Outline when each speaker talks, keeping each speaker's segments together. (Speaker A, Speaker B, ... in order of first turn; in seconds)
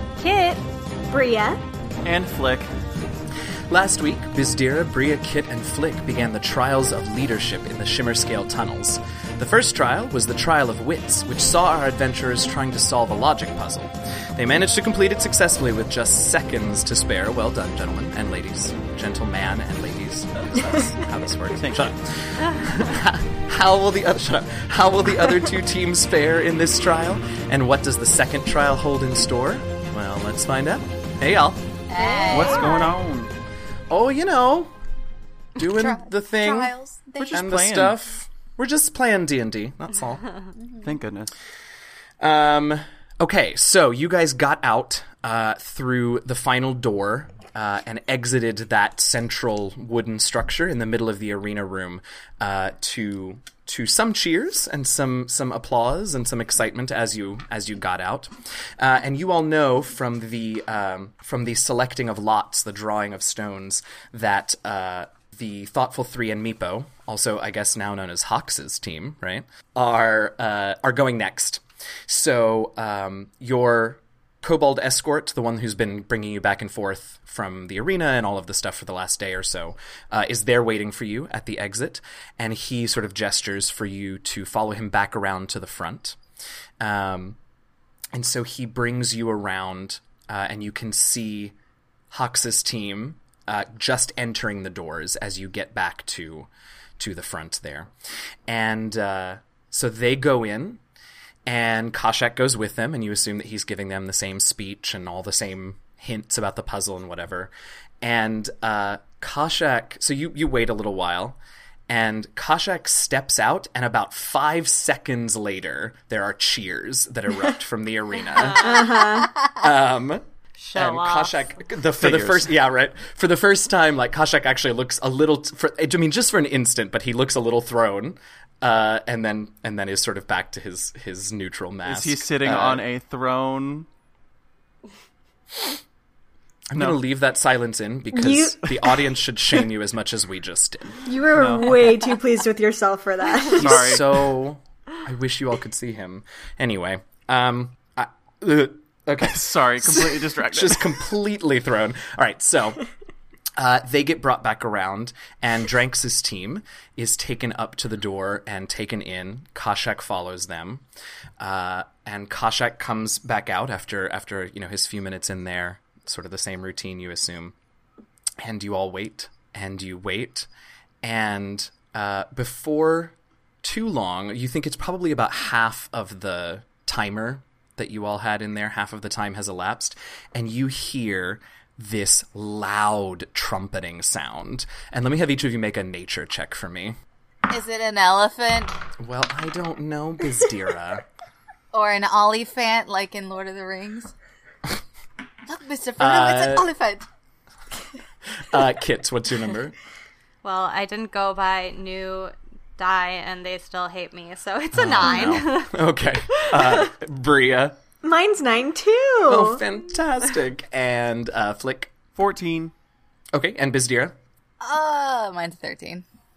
Speaker A: 0.2-0.6, 32.0-32.9, 120.6-121.3, 200.4-206.9
Speaker B: 1.1-1.6, 118.6-119.4, 138.1-138.6, 141.0-144.0, 208.0-209.6
Speaker C: 2.0-2.7, 21.6-21.9, 32.3-33.3, 37.2-38.0, 40.8-41.4, 122.0-122.5, 131.8-133.8, 136.7-137.0, 141.3-141.8, 143.6-144.1, 149.2-151.1, 212.1-212.7
Speaker D: 3.7-31.6, 33.9-34.7, 35.6-36.7, 37.3-40.2, 42.2-86.2, 86.8-87.4, 88.1-91.5, 92.1-97.9, 98.5-100.8, 101.5-111.4, 111.9-120.2, 120.7-132.8, 136.7-141.0, 143.5-152.8, 153.6-160.8, 161.4-167.5, 168.4-170.5, 171.0-186.9, 189.0-191.0, 196.0-196.7, 198.3-199.7, 204.7-207.8, 209.2-211.9, 213.3-214.2
Speaker E: 31.9-32.9, 35.6-37.4, 40.5-40.9, 187.5-188.7, 191.7-194.1, 195.4-197.1, 214.6-216.0